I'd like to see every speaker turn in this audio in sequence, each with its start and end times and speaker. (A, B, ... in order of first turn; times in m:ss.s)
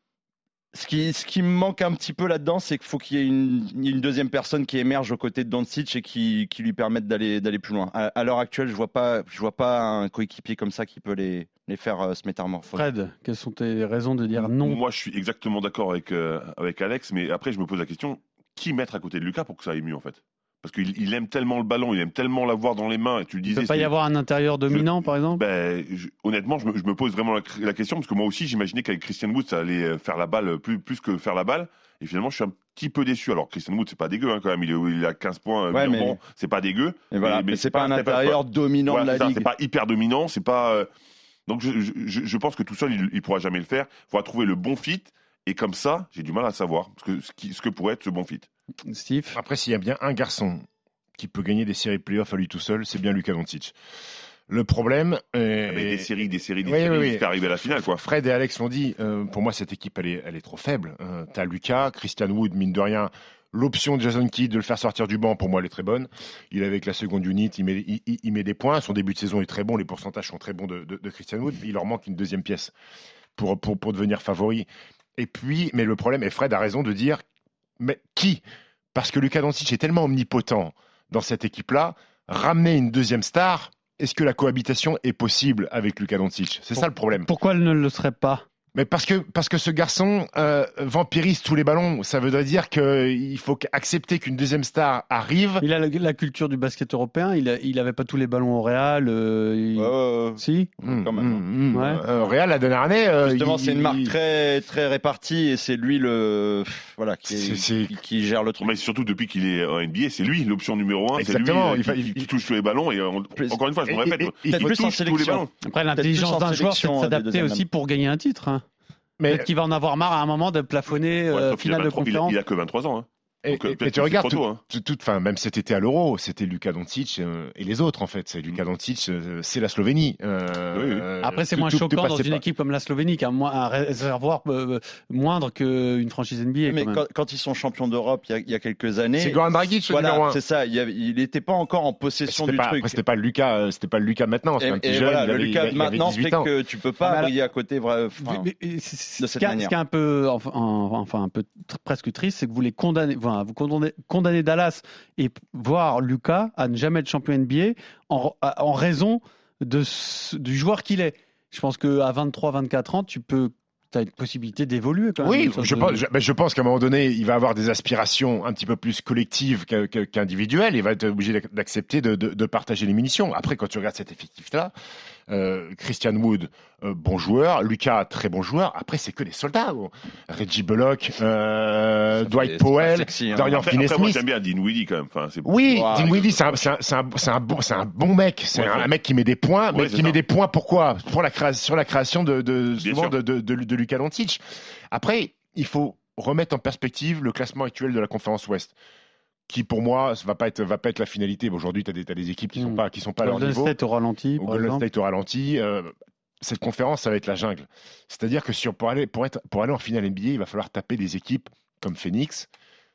0:00.7-0:12.8 A
0:12.7-0:14.8 B
0:14.4-0:23.9 C
0:23.5-0:25.4 B
0:24.7-0:40.9 C
0:35.7-0:36.2 A
0:37.1-0:39.5 A
0:41.5-0:48.5 C
0:48.9-0:49.4 B
0:49.3-0:50.6 D
0:51.2-0:53.7 D
0:54.5-0:56.1 D
0:55.7-0:58.0 C
0:56.6-1:12.7 D
1:13.4-1:17.2 D
1:17.8-1:27.3 D
1:26.8-1:28.4 B
1:28.7-1:35.6 D
1:35.6-1:40.7 B
1:39.8-1:41.4 A
1:40.8-1:44.1 D
1:41.7-1:42.0 B
1:43.2-1:48.7 A
1:47.2-1:48.0 D
1:48.6-1:55.5 C
1:51.1-1:52.3 D
1:53.9-1:54.7 D
1:54.4-1:57.6 A
1:55.6-1:58.6 B
1:59.2-1:59.5 D
1:59.2-2:02.4 B
2:01.3-2:04.6 C
2:03.4-2:12.4 D
2:10.7-2:11.0 C
2:11.2-2:17.0 B
2:16.7-2:23.0 A
2:19.2-2:20.4 D
2:22.2-2:26.5 D
2:24.6-2:28.5 A
2:27.0-2:27.3 B
2:28.2-2:46.0 B
2:29.2-2:29.7 A
2:45.2-2:54.7 D
2:55.3-3:04.2 D
3:02.2-3:03.7 A
3:03.5-3:06.5 C
3:05.4-3:14.4 D
3:05.7-3:06.1 A
3:08.5-3:08.9 C
3:09.7-3:10.2 C
3:12.8-3:13.2 C
3:14.9-3:18.7 D
3:19.5-3:23.8 D
3:22.6-3:24.8 B
3:24.4-3:32.5 D